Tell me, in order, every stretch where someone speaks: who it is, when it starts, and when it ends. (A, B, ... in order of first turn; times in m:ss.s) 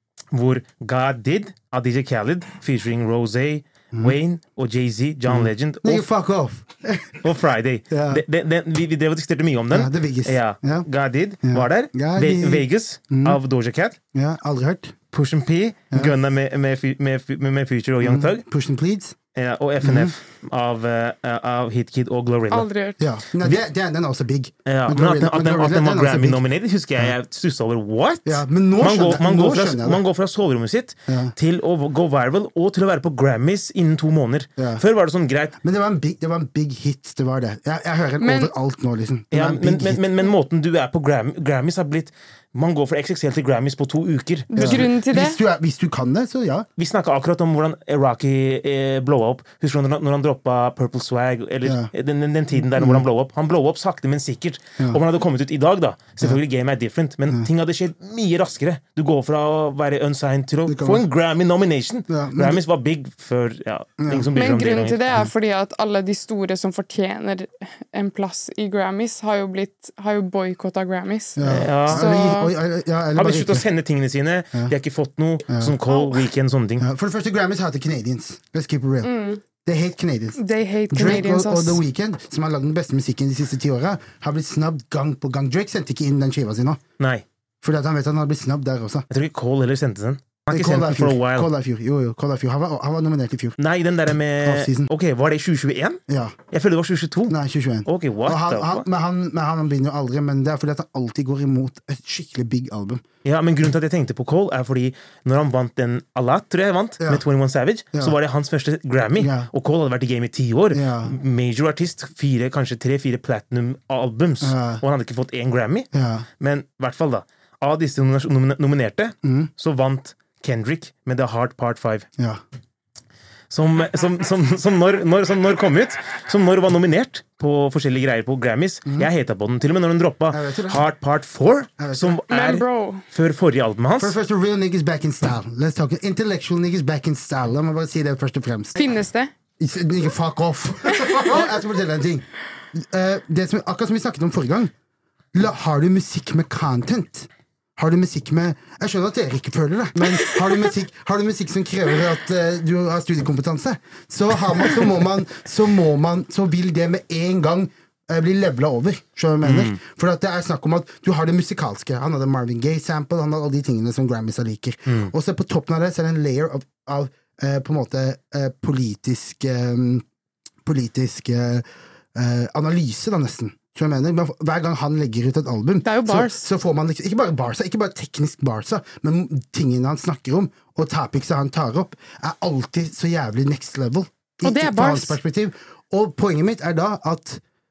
0:00.3-0:06.1 A
0:05.3-0:07.2 B
0:07.2-0:14.0 A
0:07.9-0:08.2 B
0:09.7-0:10.9 B
0:11.4-0:13.4 B
0:14.1-0:14.9 B
0:15.1-0:18.4 A
0:18.0-0:19.2 B
0:19.4-0:22.7 A
0:19.8-0:20.1 B
0:22.5-0:23.0 C
0:23.0-0:26.4 B
0:24.7-0:35.6 A
0:28.2-0:30.0 B
0:31.1-0:31.3 B
0:34.6-0:34.8 B
0:35.6-0:40.2 B
0:38.2-0:38.5 C
0:39.3-0:44.9 A
0:44.5-0:45.4 C
0:44.6-0:46.7 B
0:46.8-1:05.0 A
0:51.6-0:51.9 B
0:52.6-0:53.0 B
1:00.7-1:01.0 B
1:02.1-1:02.6 B
1:04.0-1:04.3 B
1:04.3-1:12.5 C
1:11.4-1:13.7 B
1:11.4-1:12.1 A
1:13.2-1:16.8 A
1:15.5-1:15.8 B
1:16.8-1:20.4 B
1:19.0-1:19.4 C
1:20.4-1:21.8 C
1:20.9-1:26.8 B
1:27.0-1:27.2 A
1:27.6-1:29.1 B
1:29.1-1:31.5 A
1:30.5-1:33.6 B
1:33.6-1:37.4 A
1:34.4-1:34.9 B
1:36.1-1:36.4 B
1:37.3-1:43.0 B
1:37.9-1:38.8 A
1:43.2-1:55.9 A
1:49.2-1:49.5 B
1:50.7-1:51.2 B
1:54.4-1:54.8 B
1:55.9-1:56.3 B
1:56.4-2:02.1 A
1:59.2-1:59.5 B
2:03.5-2:14.2 A
2:10.3-2:10.8 B
2:11.8-2:12.2 B
2:12.3-2:13.0 C
2:14.0-2:18.9 B
2:18.8-2:19.3 C
2:19.6-2:24.7 B
2:25.3-2:50.0 B
2:39.4-2:39.8 A
2:50.6-3:07.4 B
2:55.8-2:56.4 C
3:04.4-3:05.2 C